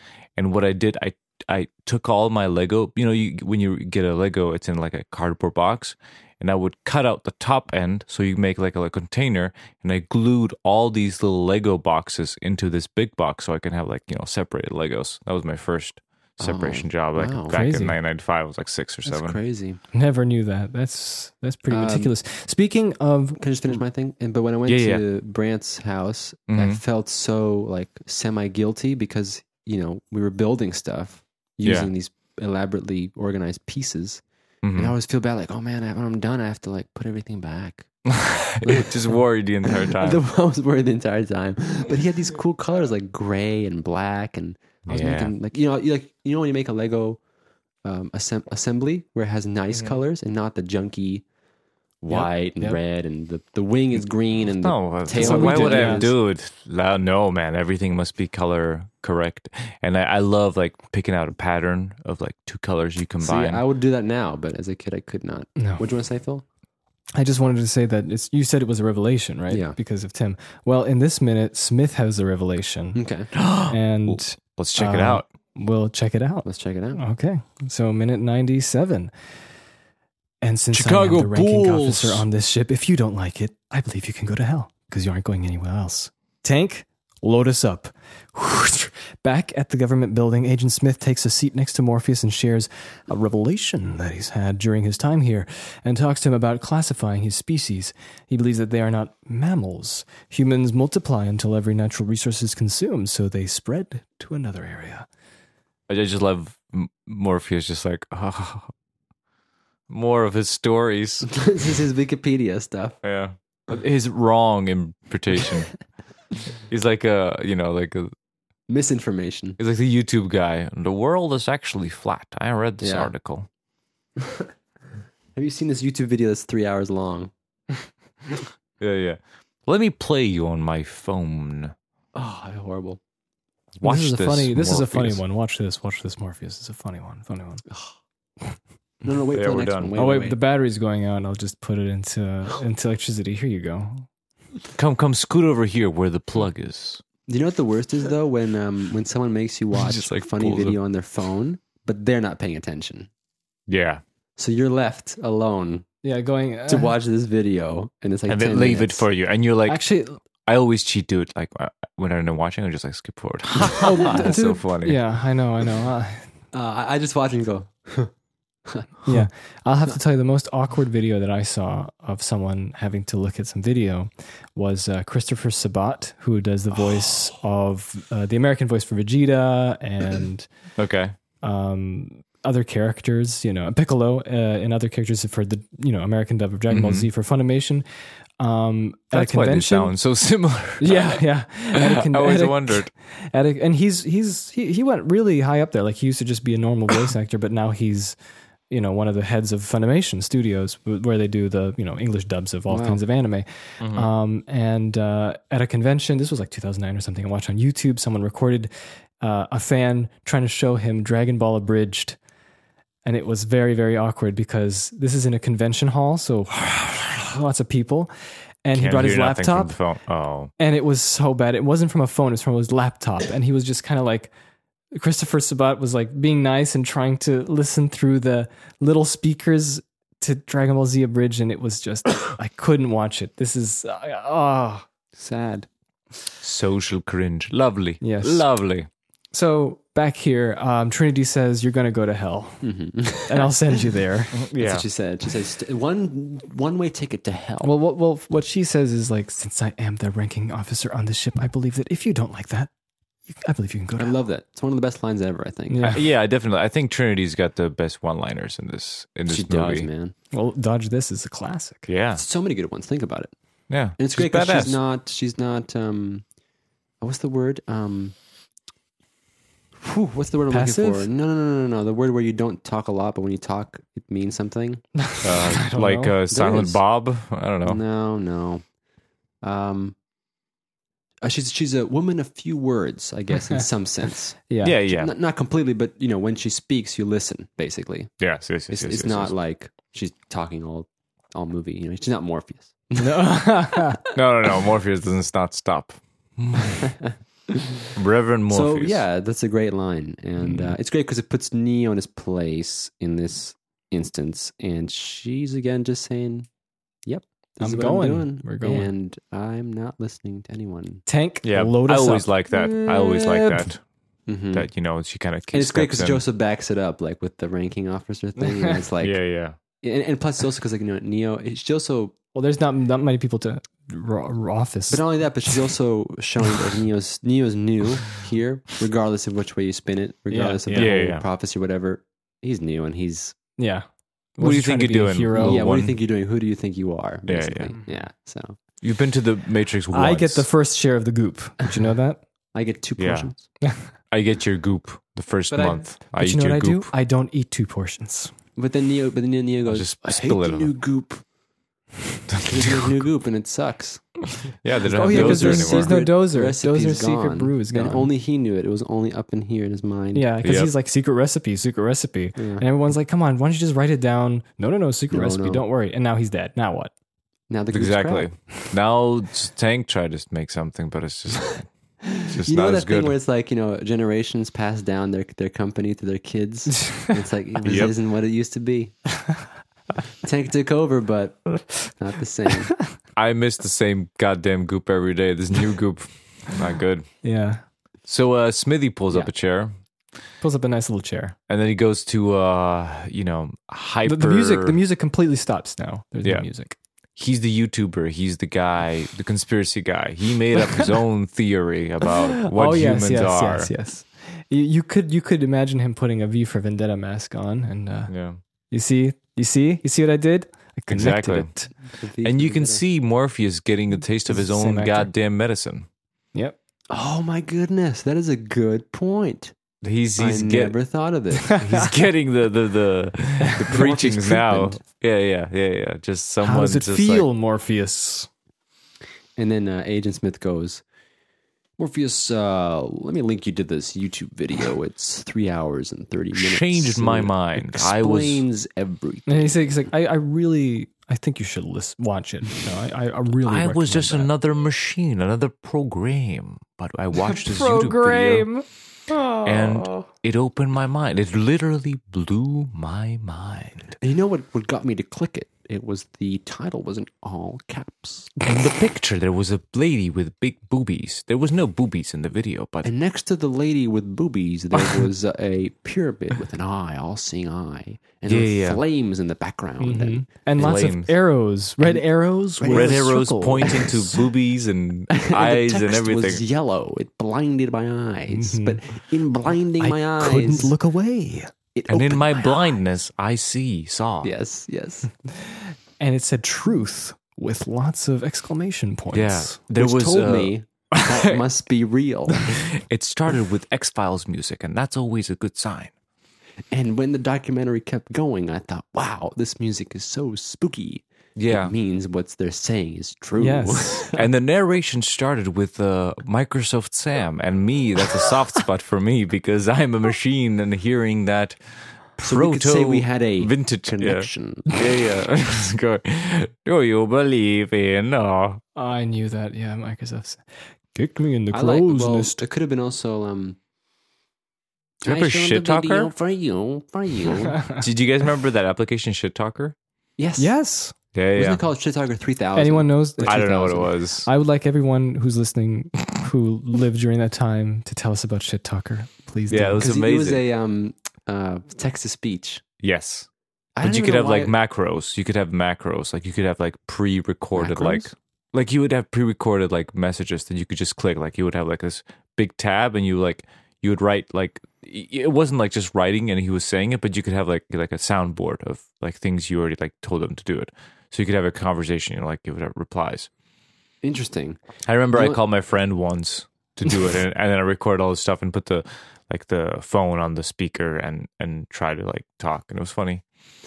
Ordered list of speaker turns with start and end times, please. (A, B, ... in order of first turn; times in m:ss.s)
0:00.4-0:19.4 A
0:16.4-0:17.5 B
0:17.5-0:18.0 C
0:19.0-0:19.8 B
0:19.9-0:23.4 C
0:21.7-0:22.1 B
0:23.4-0:34.2 B
0:24.7-0:25.0 A
0:26.5-0:26.8 A
0:31.6-0:31.9 A
0:34.6-0:34.9 A
0:34.8-0:37.9 B
0:38.1-0:40.2 A
0:38.6-0:47.2 B
0:44.9-0:45.3 A
0:47.8-0:51.2 B
0:49.7-0:50.0 A
0:52.0-0:56.1 B
0:52.1-0:52.8 C
0:54.6-1:03.6 A
0:55.1-0:56.0 C
1:03.2-1:06.4 B
1:05.6-1:05.8 C
1:07.2-1:13.0 C
1:09.5-1:09.8 B
1:13.0-1:13.3 B
1:13.3-1:15.2 A
1:13.7-1:19.1 C
1:16.4-1:17.0 B
1:20.4-1:45.1 C
1:20.7-1:22.2 A
1:45.9-1:48.7 A
1:49.9-1:51.3 A
1:51.3-1:53.0 B
1:53.0-1:55.7 A
1:56.7-1:58.1 A
1:58.7-1:59.6 B
1:59.6-2:03.5 A
2:02.8-2:03.1 B
2:05.3-2:07.3 B
2:08.8-2:11.7 A
2:12.1-2:13.0 B
2:13.8-2:15.2 A
2:13.8-2:17.6 C
2:19.0-2:20.4 B
2:19.3-2:19.9 A
2:20.0-2:24.0 C
2:24.8-2:27.0 A
2:27.3-2:33.1 B
2:29.7-2:30.8 A
2:33.7-2:34.0 A
2:34.4-2:35.8 B
2:36.0-2:36.9 C
2:36.7-2:39.0 B
2:38.3-2:39.8 A
2:39.6-2:40.2 C
2:40.4-2:45.0 A
2:43.8-2:46.2 C
2:46.5-2:48.1 B
2:48.7-2:48.9 B
2:49.0-3:00.5 C
3:00.8-3:01.1 A
3:01.4-3:07.8 C
3:06.7-3:07.1 A
3:08.4-3:09.9 C
3:09.1-3:11.2 A
3:10.8-3:18.2 C
3:11.7-3:12.9 A
3:18.7-3:32.2 C
3:22.7-3:23.0 B
3:23.8-3:24.1 A
3:33.0-3:38.1 C
3:38.6-3:39.7 C
3:38.7-3:40.5 A
3:40.6-3:44.3 C
3:44.9-3:54.9 C
3:55.1-3:55.7 B
3:56.4-3:58.9 A
3:58.0-3:58.5 C
3:59.3-4:04.4 C
4:02.6-4:03.6 B
4:04.3-4:04.8 A
4:04.6-4:07.7 B
4:07.6-4:12.7 C
4:13.3-4:14.1 C
4:14.0-4:15.9 B
4:15.7-4:16.0 C
4:15.9-4:19.9 A
4:19.3-4:20.1 B
4:20.3-4:21.9 C
4:21.9-4:22.2 A
4:22.2-4:23.3 B
4:23.7-4:24.8 A
4:24.0-4:26.2 B
4:27.0-4:28.1 B
4:29.8-4:34.8 B
4:30.5-4:31.1 C
4:35.0-4:36.1 C
4:35.2-4:37.8 A
4:36.3-4:36.8 B
4:37.6-4:38.6 B
4:39.4-4:39.9 B
4:41.2-4:48.1 B
4:44.5-4:44.8 C
4:44.6-4:45.1 A
4:48.2-4:49.3 A
4:48.7-4:53.3 B
4:53.0-4:54.1 C
4:54.1-4:56.8 A
4:56.8-4:57.9 B
4:58.0-4:59.0 A
4:58.5-5:06.5 B
5:00.4-5:00.7 A
5:07.0-5:11.0 B
5:07.6-5:08.9 C
5:11.1-5:12.3 C
5:11.4-5:13.8 A
5:12.5-5:13.6 B
5:14.3-5:14.7 B
5:14.5-5:16.2 A
5:15.5-5:19.2 B
5:18.4-5:18.7 C
5:19.0-5:19.6 A
5:19.8-5:22.1 B
5:22.3-5:25.5 C
5:24.9-5:33.4 B
5:30.3-5:30.9 C
5:30.7-5:31.2 A
5:33.6-5:33.8 C
5:34.4-5:35.6 C
5:34.4-5:36.0 A
5:35.3-5:38.6 B
5:37.3-5:37.8 A
5:38.8-5:40.5 A
5:39.9-5:42.2 C
5:42.5-5:43.4 B
5:43.0-5:43.3 A
5:44.1-5:46.9 A
5:45.5-5:48.3 C
5:48.6-5:51.2 B
5:49.6-5:50.7 A
5:52.3-5:52.9 A
5:52.4-5:54.2 B
5:54.6-5:56.0 A
5:54.9-5:58.1 C
5:55.0-6:00.3 B
6:00.1-6:06.9 C
6:00.4-6:00.7 A
6:02.4-6:02.6 B
6:05.1-6:05.6 B
6:07.5-6:08.3 B
6:07.7-6:13.2 A
6:12.1-6:19.3 B
6:17.6-6:17.9 A
6:20.2-6:22.8 B
6:23.2-6:27.1 A
6:27.2-6:27.6 C
6:28.0-6:29.7 A
6:30.4-6:31.4 C
6:31.5-6:34.8 A
6:34.0-6:36.8 C
6:37.2-6:43.7 A
6:42.5-6:48.1 C
6:48.1-6:48.4 A
6:48.7-6:51.7 C
6:50.9-6:55.9 A
6:51.9-6:52.8 B
6:54.3-6:55.1 C
6:56.9-6:59.5 B
6:59.8-7:00.8 A
7:00.2-7:01.8 B
7:01.5-7:07.2 A
7:03.6-7:04.8 B
7:06.4-7:08.3 C
7:09.4-7:10.8 B
7:11.8-7:19.6 B
7:16.3-7:18.4 A
7:19.3-7:24.3 C
7:23.4-7:28.5 A
7:27.2-7:28.6 C
7:29.3-7:34.0 A
7:34.0-7:38.4 B
7:38.4-7:42.9 A
7:42.8-7:50.2 B
7:48.3-7:48.8 A
7:49.8-7:53.8 C
7:50.6-7:51.1 A
7:52.6-7:54.2 B
7:52.6-7:56.4 A
7:55.1-8:00.7 B
7:58.3-7:58.8 C
7:59.8-8:01.5 C
8:01.7-8:02.6 B
8:01.9-8:04.3 A
8:04.2-8:05.1 B
8:05.3-8:09.6 C
8:09.1-8:11.2 A
8:09.7-8:12.6 B
8:12.5-8:15.9 A
8:16.7-8:24.2 B
8:21.4-8:21.7 A
8:23.4-8:24.0 C
8:24.1-8:31.6 A
8:32.2-8:38.6 A
8:32.2-8:34.7 B
8:38.8-8:42.4 C
8:41.5-8:43.6 B
8:45.0-8:46.1 A
8:45.0-8:47.6 B
8:47.7-8:49.7 A
8:50.2-8:50.5 B
8:50.4-8:50.9 C
8:51.1-8:51.6 A
8:51.3-8:53.9 B
8:52.6-8:53.6 C
8:53.2-8:54.3 A
8:54.2-8:59.8 C
8:59.5-9:00.4 A
8:59.8-9:02.6 B
9:02.8-9:03.3 A
9:03.8-9:04.5 B
9:03.8-9:23.3 A
9:07.6-9:08.1 B
9:24.0-9:24.6 B
9:24.8-9:33.2 A
9:25.1-9:25.4 B